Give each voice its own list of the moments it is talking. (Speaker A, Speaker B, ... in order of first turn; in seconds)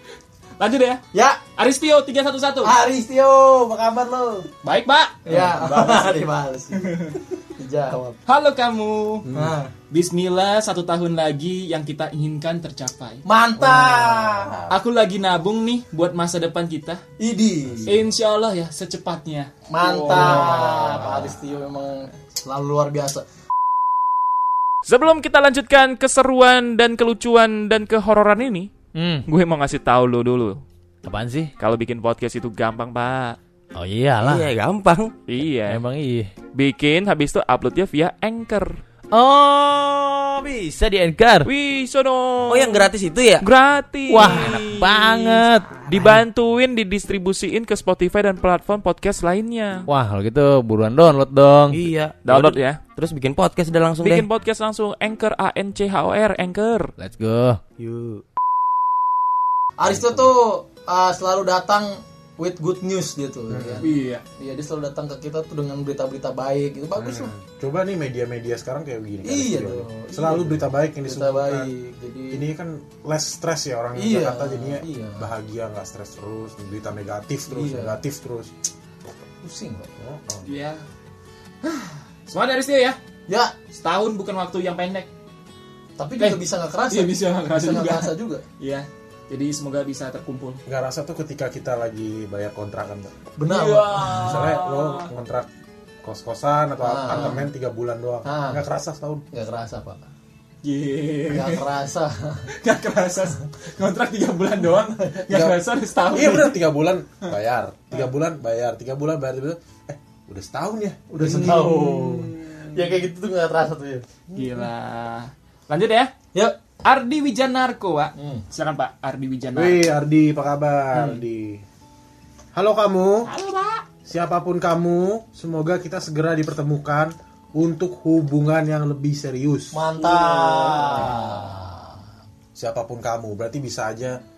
Speaker A: 0.6-1.0, 1.6-2.7, 4.6-7.2, 8.3-9.3, 9.9-13.2, 14.7-17.0, 17.9-21.3, 63.8-64.2, 80.5-80.8, 81.6-83.0, 83.7-85.1, 86.2-90.6, 93.5-95.1, 100.6-101.7, 102.5-106.6, 111.2-113.0, 114.3-116.2, 116.8-119.9, 123.3-123.8, 130.0-131.6
Speaker B: 1.1-1.4, 2.6-4.5, 5.3-8.2, 9.3-9.7, 13.2-14.7, 17.2-18.0, 19.7-23.2, 59.8-67.3, 69.2-72.5, 74.0-75.3, 77.5-78.0, 79.4-79.9, 83.3-83.5, 86.0-88.4, 93.4-94.5, 96.8-97.4, 98.2-98.6, 99.3-100.0, 101.3-102.5, 111.1-114.1, 118.2-118.4, 129.7-131.9
Speaker C: 9.3-9.6, 13.6-14.6, 59.9-60.3, 63.5-63.9, 67.0-71.7, 72.3-78.5, 80.0-80.5, 90.7-93.2, 94.1-95.5, 96.0-99.2, 105.3-111.7, 119.5-121.6, 122.5-123.3, 124.1-129.8, 132.6-134.2
Speaker D: 24.9-28.7, 29.2-30.6, 31.6-33.4, 35.3-35.8, 36.5-38.8, 41.4-42.9, 43.4-49.9, 52.3-52.8, 54.0-56.9
Speaker E: 28.9-29.2, 31.1-31.5, 33.8-34.5, 35.4-36.3, 39.1-41.5, 44.1-46.2, 49.9-51.8, 57.0-58.2
Speaker F: 34.2-35.2, 42.5-43.5, 44.2-44.6, 51.7-54.3